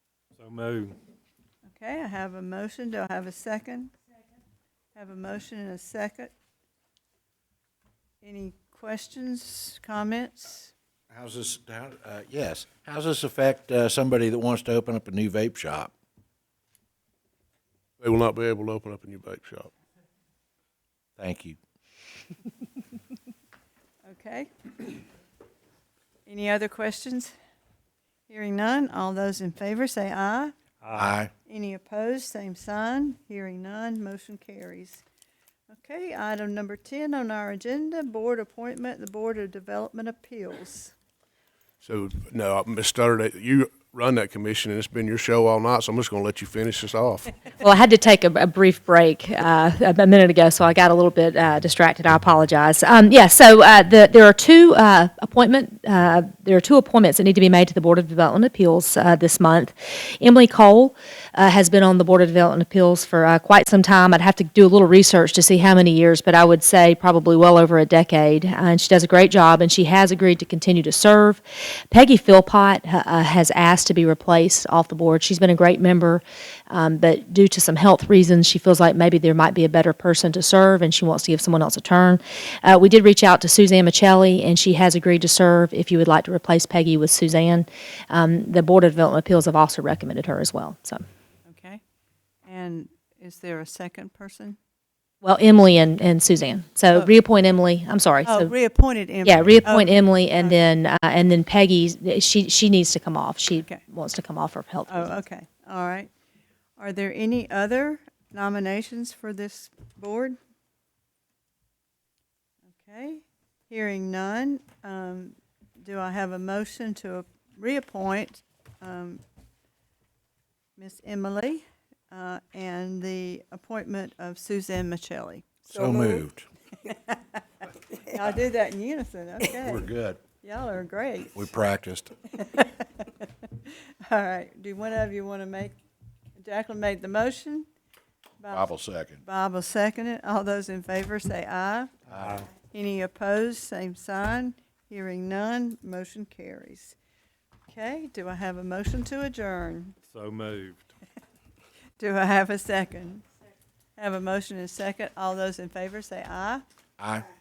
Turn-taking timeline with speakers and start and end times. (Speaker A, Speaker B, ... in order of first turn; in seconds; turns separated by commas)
Speaker A: 0.3-1.0, Speaker B: 1.7-3.9, Speaker B: 5.0-6.3, Speaker B: 8.2-10.7, Speaker C: 11.1-15.9, Speaker D: 18.0-19.7, Speaker C: 21.2-21.6, Speaker B: 24.1-25.0, Speaker B: 26.2-27.3, Speaker B: 28.3-30.6, Speaker A: 30.8-31.2, Speaker C: 30.9-31.3, Speaker B: 31.4-35.0, Speaker B: 35.7-40.9, Speaker D: 41.8-47.3, Speaker E: 47.6-91.0, Speaker B: 91.5-91.8, Speaker B: 92.4-94.6, Speaker E: 95.2-98.5, Speaker B: 98.2-100.6, Speaker E: 99.2-105.1, Speaker B: 104.9-106.1, Speaker B: 106.8-110.4, Speaker B: 112.7-119.2, Speaker B: 120.8-126.3, Speaker C: 125.7-126.5, Speaker B: 126.8-131.4, Speaker C: 129.5-130.2, Speaker C: 131.3-132.1, Speaker B: 132.3-133.3, Speaker B: 134.0-135.8, Speaker B: 136.4-137.7, Speaker B: 138.4-141.9, Speaker C: 138.5-139.2, Speaker C: 142.1-142.4, Speaker A: 142.1-142.5, Speaker B: 142.6-146.9, Speaker B: 147.7-150.0, Speaker A: 150.0-150.8, Speaker B: 152.0-153.2, Speaker B: 154.0-156.6, Speaker C: 157.0-157.3